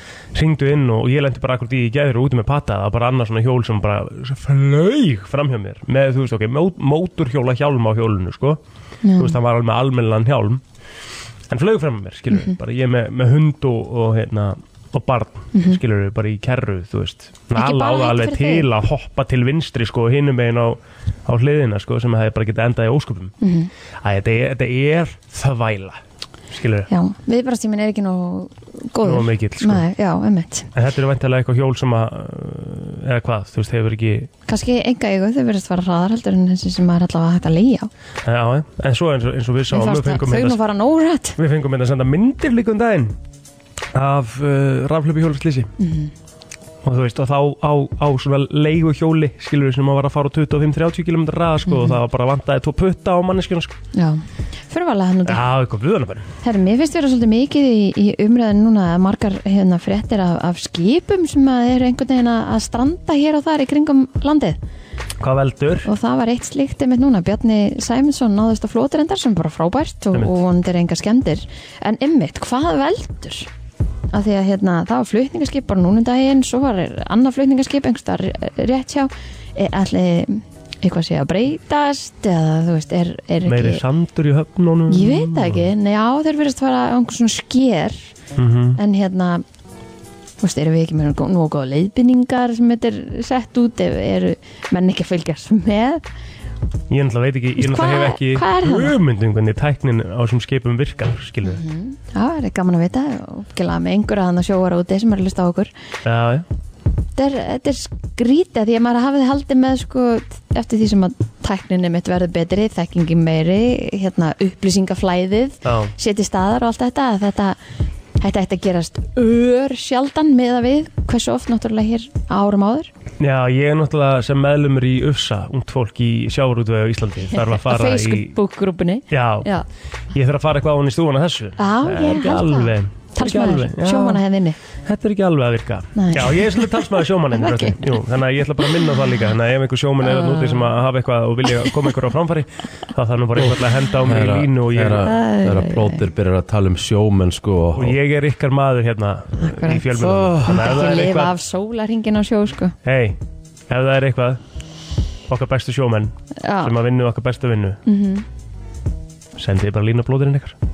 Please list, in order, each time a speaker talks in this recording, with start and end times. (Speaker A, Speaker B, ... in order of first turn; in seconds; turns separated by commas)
Speaker A: 0.3-8.6, Speaker B: 9.0-9.3, Speaker A: 9.2-10.6, Speaker A: 11.5-23.3, Speaker B: 15.5-15.8, Speaker B: 17.5-18.6, Speaker B: 23.4-23.7, Speaker A: 24.0-26.0, Speaker A: 26.5-26.9, Speaker B: 26.9-30.7, Speaker A: 29.0-29.8, Speaker A: 30.7-34.3, Speaker B: 34.5-37.9, Speaker A: 38.2-40.6, Speaker B: 39.7-41.4, Speaker A: 41.4-43.1, Speaker A: 43.9-45.7, Speaker B: 45.8-46.1, Speaker A: 46.8-53.7, Speaker B: 51.6-52.0, Speaker B: 53.9-55.4, Speaker A: 55.3-56.3, Speaker B: 56.4-64.6, Speaker A: 65.2-65.9, Speaker B: 65.8-73.5, Speaker A: 70.1-70.4, Speaker B: 74.1-83.8, Speaker A: 83.5-85.7, Speaker B: 84.9-88.1, Speaker A: 88.3-88.8, Speaker B: 88.8-89.4, Speaker B: 90.4-96.0, Speaker A: 96.9-101.6, Speaker B: 97.6-99.0, Speaker B: 101.4-105.7, Speaker A: 106.0-106.4, Speaker B: 107.2-117.6, Speaker A: 115.6-115.9, Speaker B: 118.2-122.9, Speaker A: 123.2-128.3, Speaker B: 127.3-129.6, Speaker A: 129.1-129.5, Speaker A: 130.1-134.2, Speaker B: 131.6-134.6, Speaker A: 134.8-145.1, Speaker B: 135.9-136.7, Speaker B: 137.4-137.8, Speaker B: 140.0-140.7, Speaker C: 144.0-148.0, Speaker B: 145.0-146.0, Speaker A: 147.8-151.3, Speaker B: 149.4-149.8, Speaker C: 149.9-150.7, Speaker B: 150.4-152.7, Speaker A: 152.8-153.2, Speaker A: 153.7-154.4, Speaker A: 155.3-157.8, Speaker B: 156.4-156.7, Speaker B: 157.8-158.2, Speaker A: 159.4-160.5